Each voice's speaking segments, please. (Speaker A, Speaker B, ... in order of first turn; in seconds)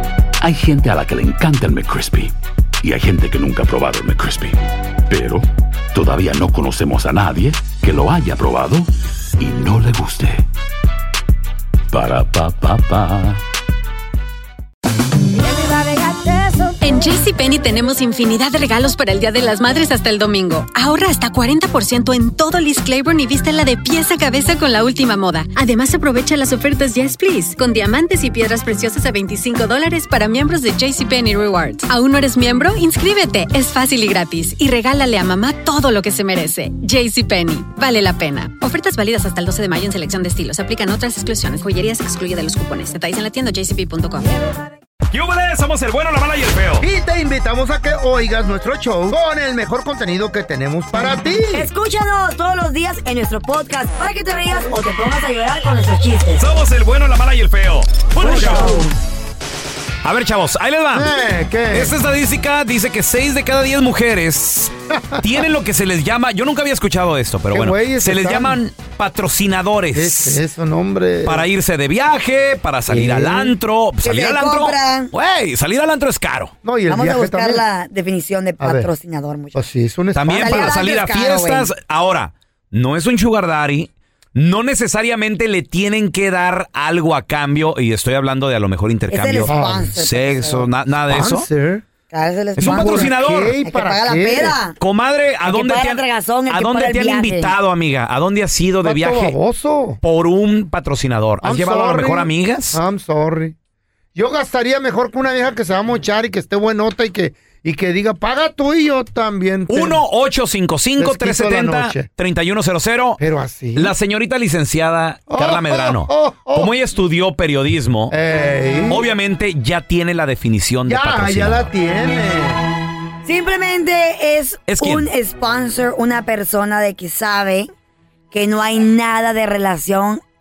Speaker A: 0.4-10.4, 11.9-13.4
Speaker B: 16.8-44.3
Speaker C: 45.1-46.9, 56.4-58.8, 60.0-61.1, 61.7-70.4, 71.3-76.5, 80.2-91.5, 92.6-93.5, 94.8-99.4, 100.0-102.8, 109.7-113.2, 113.8-118.2, 118.9-121.7, 124.7-125.1
Speaker D: 46.8-51.7, 58.2-58.8, 60.9-61.9, 64.9-65.4, 67.5-68.6, 69.9-71.5, 72.9-73.5, 76.6-77.7, 78.6-78.9, 79.5-80.8, 89.5-90.0, 91.1-91.8, 92.6-94.6, 98.8-100.0, 101.4-103.5, 104.2-110.0, 111.0-112.1, 113.2-113.9, 115.3-116.7, 118.1-119.1, 120.9-122.6
Speaker E: 51.5-56.5, 58.2-58.9, 74.0-75.1, 76.9-79.6, 80.3-81.7, 89.1-90.7, 92.1-94.8, 95.4-97.5, 123.2-127.7, 128.3-130.2